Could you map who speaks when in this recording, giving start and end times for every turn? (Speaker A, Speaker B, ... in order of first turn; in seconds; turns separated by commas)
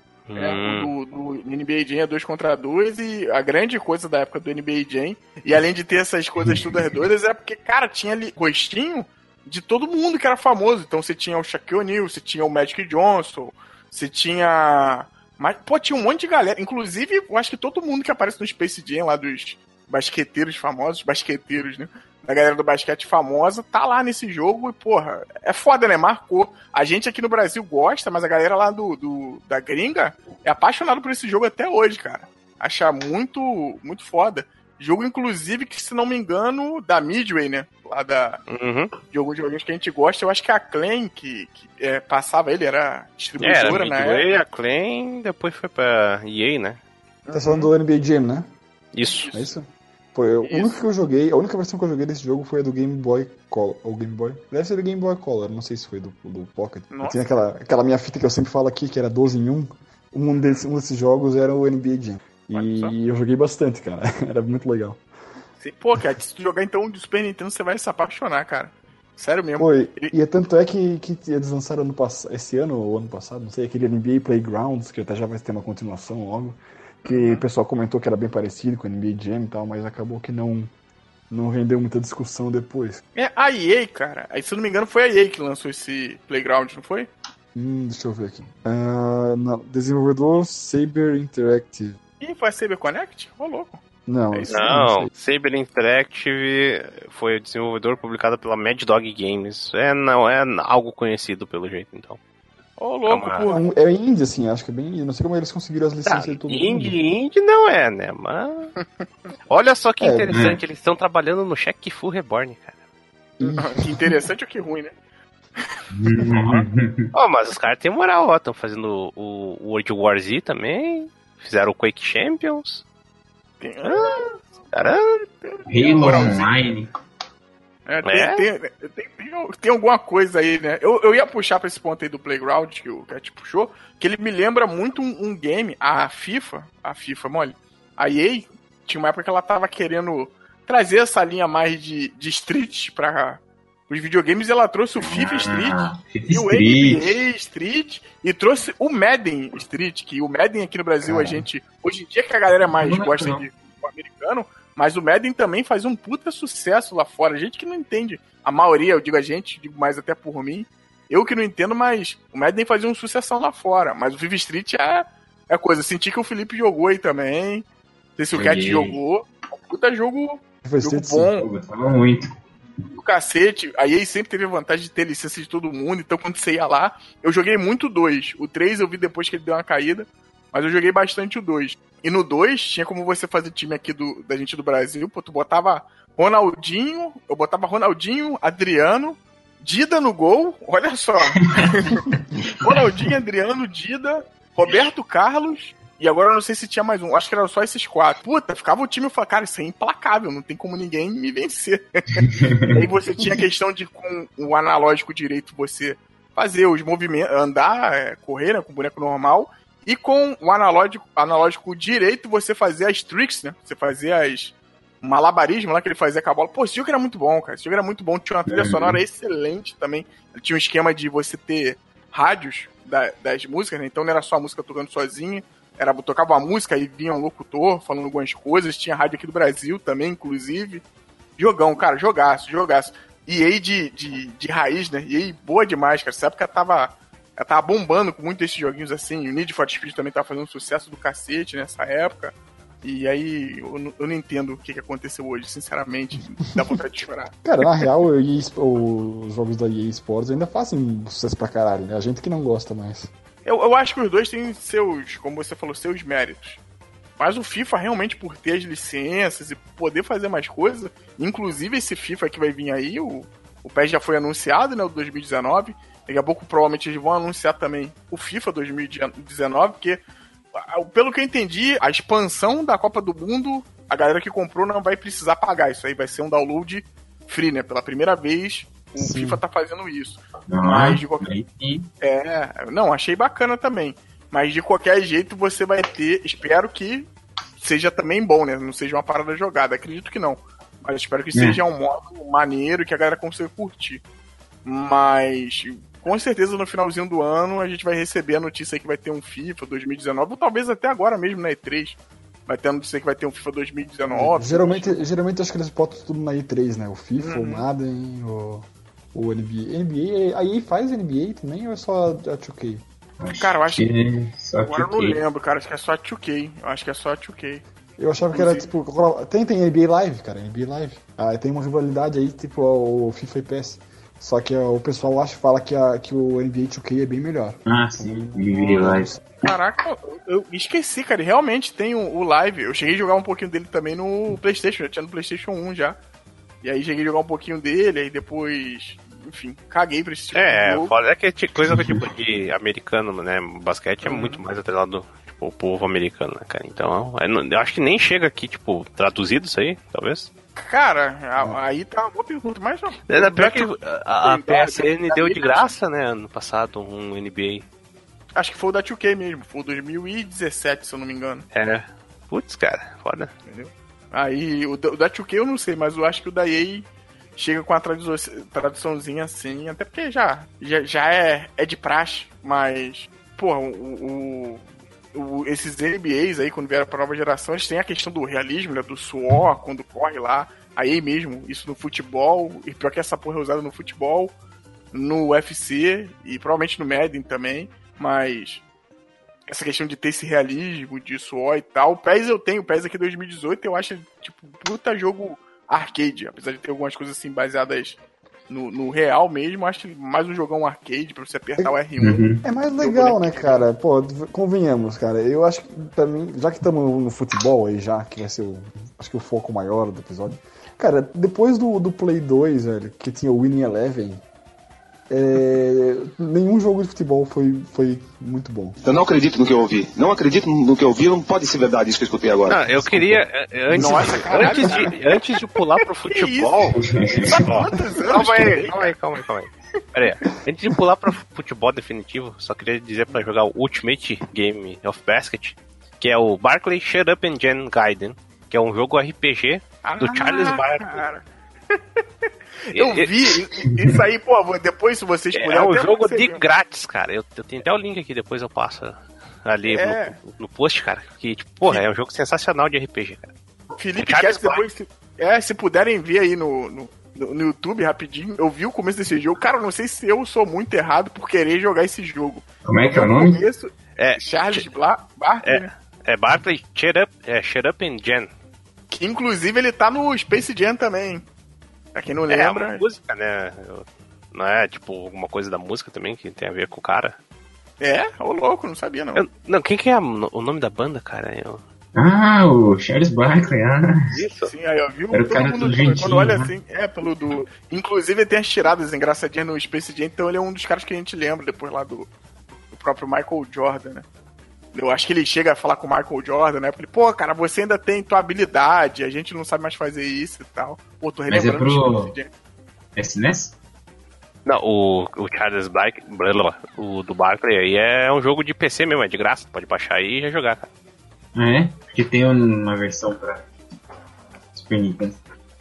Speaker A: 0.3-0.9, Speaker B: 0.3-38.4, Speaker A: 38.5-38.9, Speaker B: 39.1-44.3, Speaker A: 43.4-46.8, Speaker B: 47.2-47.7, Speaker C: 47.3-48.5, Speaker A: 48.9-49.3, Speaker B: 49.0-49.5, Speaker C: 49.3-65.0, Speaker B: 50.4-50.8, Speaker B: 56.9-57.2, Speaker B: 60.4-60.6, Speaker B: 62.5-62.9, Speaker B: 65.6-70.1, Speaker C: 69.6-80.7, Speaker B: 77.0-77.5, Speaker C: 81.3-83.0, Speaker B: 83.2-87.1, Speaker C: 87.5-92.0, Speaker B: 92.2-93.8, Speaker C: 94.1-95.1, Speaker B: 94.3-94.7, Speaker A: 94.5-102.2, Speaker B: 102.8-103.6, Speaker A: 103.1-103.5, Speaker C: 103.4-107.0, Speaker A: 106.0-108.8, Speaker A: 109.5-112.8, Speaker C: 110.0-110.3, Speaker D: 110.3-110.6, Speaker C: 113.4-114.0, Speaker B: 113.4-115.0, Speaker D: 115.9-117.1, Speaker B: 116.1-116.7, Speaker A: 117.1-122.8, Speaker B: 123.6-124.3, Speaker A: 123.8-125.3, Speaker B: 125.4-126.5, Speaker D: 125.7-126.9, Speaker A: 126.0-126.4, Speaker B: 127.9-171.5, Speaker A: 128.1-128.4, Speaker D: 145.0-147.1, Speaker C: 151.1-151.4, Speaker D: 152.8-153.5, Speaker D: 168.3-169.0, Speaker C: 170.6-171.3, Speaker D: 171.4-172.3, Speaker B: 172.9-192.1, Speaker D: 191.5-191.7, Speaker D: 192.4-192.8, Speaker B: 192.6-230.8, Speaker D: 202.3-202.7, Speaker D: 218.5-219.0, Speaker B: 231.4-247.9, Speaker C: 247.4-253.1, Speaker B: 253.4-256.6, Speaker B: 257.2-270.0, Speaker B: 270.6-281.3, Speaker C: 279.0-279.4, Speaker D: 280.5-281.9, Speaker B: 282.0-294.0, Speaker D: 291.3-291.6, Speaker B: 294.6-305.0, Speaker C: 304.1-312.8, Speaker B: 307.2-307.7, Speaker D: 313.2-315.2, Speaker B: 313.3-313.9, Speaker B: 314.6-317.6, Speaker C: 318.0-329.2, Speaker B: 318.3-318.7, Speaker D: 327.7-329.1, Speaker B: 328.5-336.0, Speaker B: 336.6-340.9, Speaker A: 340.3-350.3, Speaker D: 341.6-342.0, Speaker B: 344.0-344.4, Speaker B: 350.6-355.8, Speaker A: 353.1-357.7, Speaker B: 358.3-361.5, Speaker A: 361.5-363.3, Speaker B: 363.5-384.3, Speaker B: 384.9-388.6, Speaker B: 389.5-403.6, Speaker D: 402.0-402.4, Speaker C: 402.4-414.2, Speaker C: 415.1-418.8, Speaker E: 418.8-423.2, Speaker A: 422.5-441.1, Speaker B: 423.7-425.0, Speaker C: 423.8-424.8, Speaker B: 426.1-428.9, Speaker D: 426.7-427.4, Speaker B: 439.9-442.0, Speaker B: 442.7-446.4, Speaker A: 442.8-443.1, Speaker A: 445.3-453.3, Speaker B: 449.7-450.2, Speaker B: 453.8-465.7, Speaker A: 454.0-454.6, Speaker D: 462.6-463.4, Speaker A: 464.0-464.7, Speaker A: 465.4-468.3, Speaker B: 468.9-471.3, Speaker B: 471.9-472.8, Speaker A: 472.3-477.2, Speaker B: 477.8-479.2, Speaker A: 479.1-481.6, Speaker D: 481.9-484.0, Speaker A: 484.1-484.5, Speaker B: 484.4-492.1, Speaker D: 485.1-486.5, Speaker B: 492.7-494.1, Speaker B: 494.7-502.3, Speaker D: 501.3-502.1, Speaker D: 503.0-503.6, Speaker A: 504.4-510.7, Speaker D: 511.4-513.5, Speaker D: 514.5-515.2